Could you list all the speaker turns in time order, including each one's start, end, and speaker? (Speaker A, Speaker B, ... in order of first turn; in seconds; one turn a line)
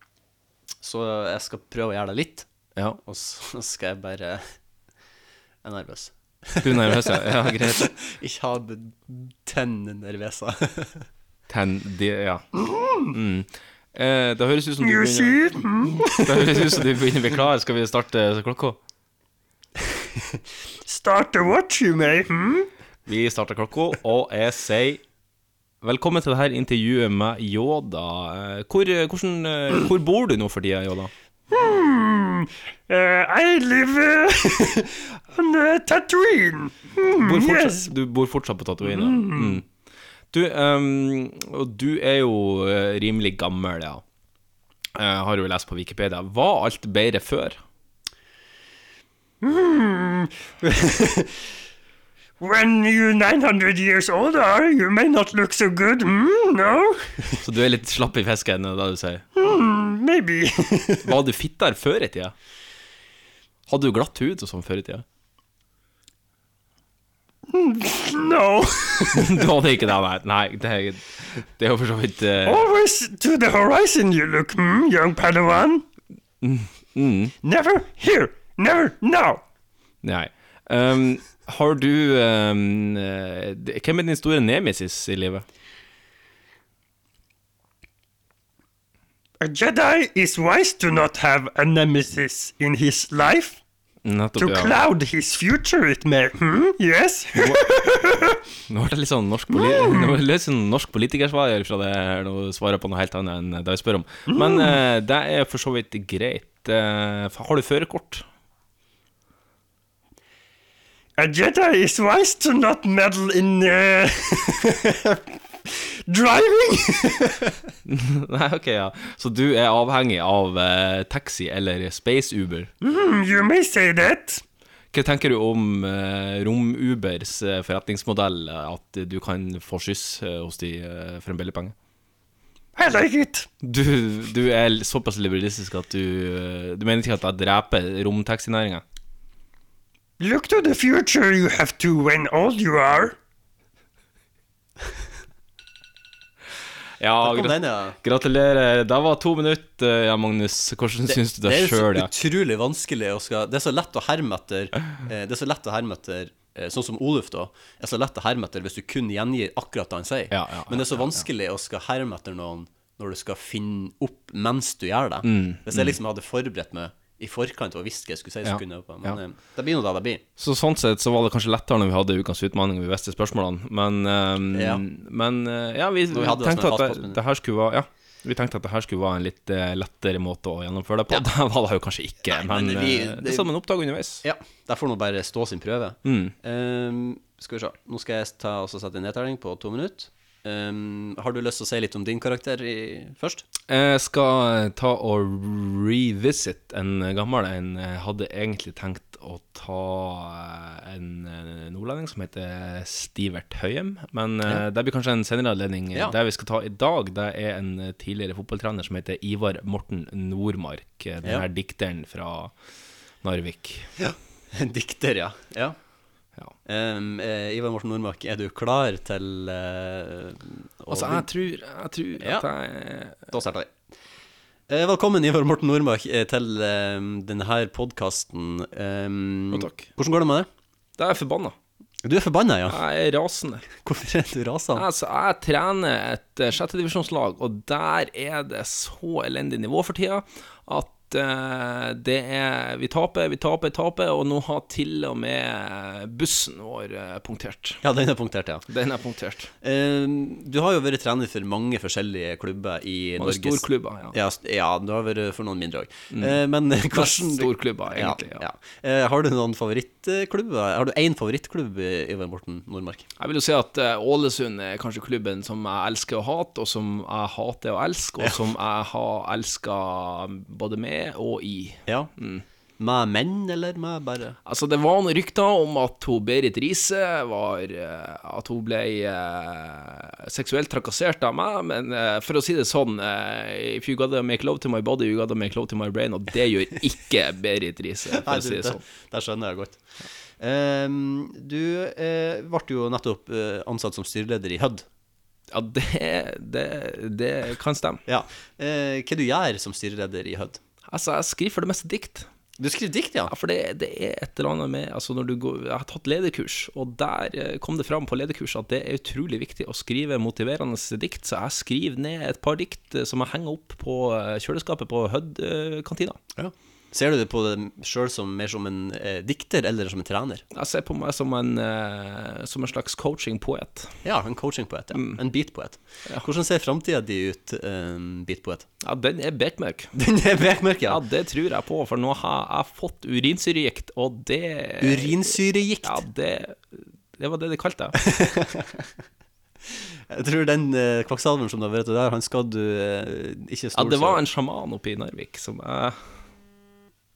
Speaker A: 0.8-2.5
Speaker A: 3.0-4.5
Speaker A: 5.6-11.1
Speaker B: 6.6-7.9
Speaker B: 11.5-12.5
Speaker B: 13.1-18.8
Speaker C: 14.8-16.4
Speaker C: 20.9-22.7
Speaker B: 23.1-25.0
Speaker B: 25.8-31.1
Speaker C: 31.5-37.9
Speaker B: 37.1-39.6
Speaker C: 38.8-39.6
Speaker B: 40.3-44.0
Speaker B: 44.9-47.6
Speaker C: 49.4-51.3
Speaker C: 52.4-57.1
Speaker B: 57.4-59.2
Speaker C: 59.4-61.1
Speaker B: 61.0-62.3
Speaker B: 63.7-65.0
Speaker C: 67.5-69.5
Speaker B: 69.1-72.7
Speaker C: 72.4-75.8
Speaker B: 76.4-77.3
Speaker C: 77.4-79.4
Speaker B: 80.0-85.4
Speaker C: 89.4-93.6
Speaker B: 94.0-94.8
Speaker C: 94.4-98.4
Speaker B: 97.4-97.8
Speaker B: 98.7-108.2
Speaker C: 99.5-100.1
Speaker C: 104.3-104.7
Speaker C: 111.2-115.2
Speaker C: 116.1-117.5
Speaker B: 117.8-122.7
Speaker C: 122.8-124.4
Speaker B: 124.9-131.7
Speaker C: 132.8-133.5
Speaker B: 133.6-138.8
Speaker C: 140.2-143.1
Speaker B: 147.0-152.1
Speaker A: 147.2-148.0
Speaker A: 151.1-170.2
Speaker B: 160.3-161.2
Speaker B: 165.2-165.9
Speaker B: 168.4-169.2
Speaker B: 170.4-184.2
Speaker A: 174.5-174.8
Speaker A: 176.1-177.2
Speaker A: 182.3-183.5
Speaker A: 184.2-193.4
Speaker B: 186.0-186.3
Speaker B: 193.7-212.5
Speaker B: 213.2-213.9
Speaker A: 214.0-215.8
Speaker A: 216.7-221.3
Speaker B: 220.9-223.3
Speaker A: 222.2-222.5
Speaker A: 223.3-223.7
Speaker A: 224.7-230.5
Speaker B: 229.5-229.9
Speaker B: 231.0-231.6
Speaker A: 232.0-232.8
Speaker B: 232.7-233.6
Speaker A: 233.8-234.8
Speaker B: 234.7-247.8
Speaker A: 247.8-248.7
Speaker B: 248.7-249.5
Speaker A: 249.6-263.1
Speaker B: 253.2-254.1
Speaker B: 256.1-258.4
Speaker B: 263.2-272.4
Speaker A: 272.8-274.4
Speaker B: 274.4-288.8
Speaker A: 288.1-289.8
Speaker A: 290.4-294.8
Speaker B: 295.5-298.0
Speaker A: 298.1-300.6
Speaker B: 300.9-302.3
Speaker A: 302.6-303.3
Speaker B: 303.3-316.2
Speaker A: 316.4-320.4
Speaker B: 320.5-323.9
Speaker A: 324.0-328.7
Speaker B: 324.9-325.2
Speaker B: 328.8-329.9
Speaker A: 329.9-331.0
Speaker B: 330.9-335.3
Speaker A: 334.8-336.0
Speaker B: 335.8-338.0
Speaker A: 338.0-338.9
Speaker A: 339.8-344.2
Speaker B: 343.7-346.1